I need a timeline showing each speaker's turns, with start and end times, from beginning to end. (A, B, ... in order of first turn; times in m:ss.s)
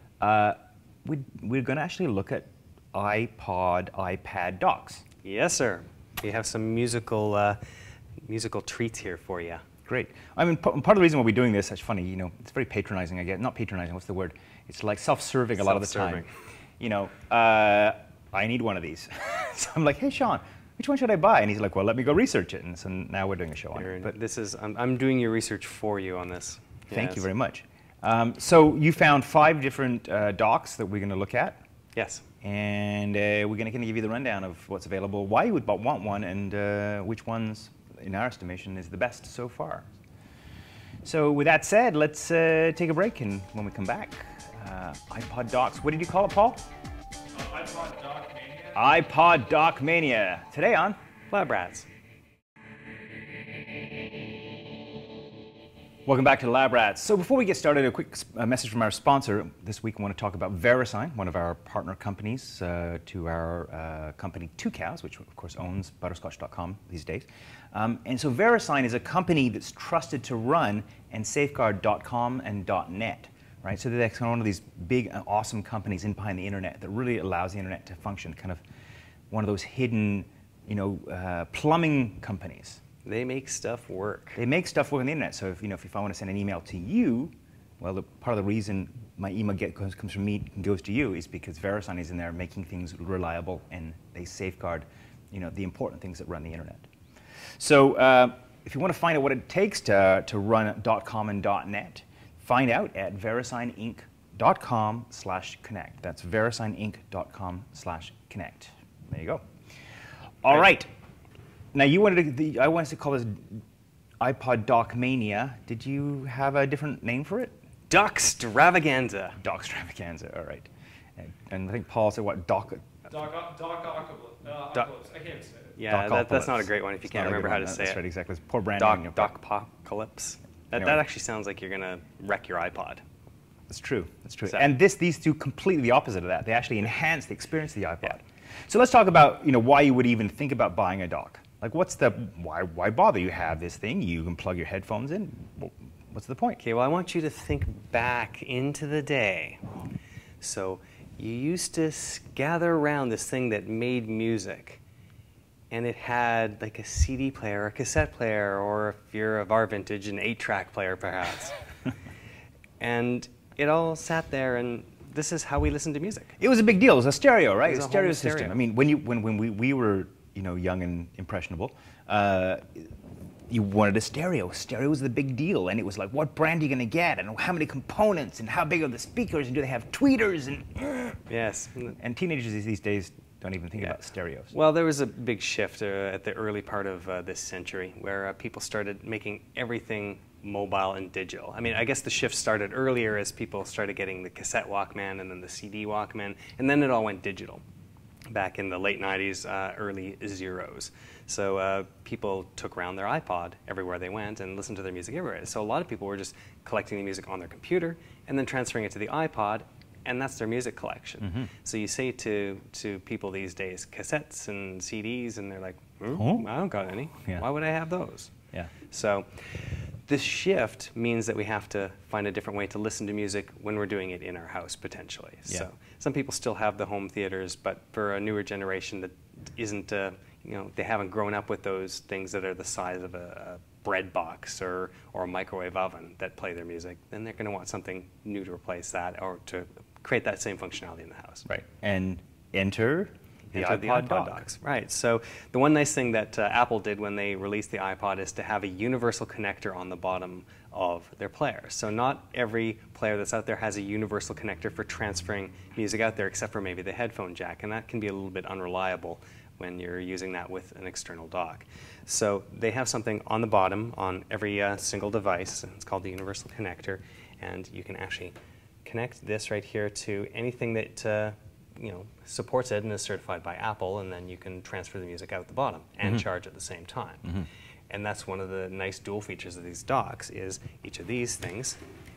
0:00.2-0:05.0 A
0:05.2-0:07.6 B
0:08.2-0:09.6 B
0:09.8-0:16.2 A
0:15.6-0:16.3 B
0:16.8-0:24.1 A
0:23.7-0:27.3 B
0:26.9-0:31.6 A
0:31.9-0:32.2 B
0:32.4-0:39.9 A
0:41.0-0:46.6 A
0:47.3-0:48.9 C
0:48.7-0:51.0 A
0:51.3-0:51.9 B
0:56.0-1:18.6 A
1:19.3-1:22.8 A
1:23.0-1:24.4 B
1:24.4-1:36.9 A
1:37.6-1:49.4 A
1:50.4-1:50.9 A
1:51.7-1:53.6 A
1:54.2-1:57.5 A
1:57.9-1:59.4 B
1:59.4-2:02.8 A
2:03.1-2:05.8 C
2:05.8-2:08.0 B
2:05.9-2:09.3 A
2:08.8-2:13.0 B
2:13.7-2:26.6 A
2:26.6-2:29.7 B
2:30.4-2:34.8 B
2:35.7-2:41.6 B
2:42.8-2:46.3 B
2:46.4-2:52.9 A
2:47.6-2:48.6 B
2:53.5-3:01.2 A
3:01.3-3:02.0 B
3:02.0-3:04.5 A
3:04.5-3:17.6 B
3:18.3-3:38.4 B
3:31.2-3:31.5 A
3:36.1-3:36.5 A
3:38.9-4:01.4 B
4:01.4-4:04.4 A
4:03.5-4:28.3 B
4:28.8-4:37.3 B
4:37.9-4:41.8 B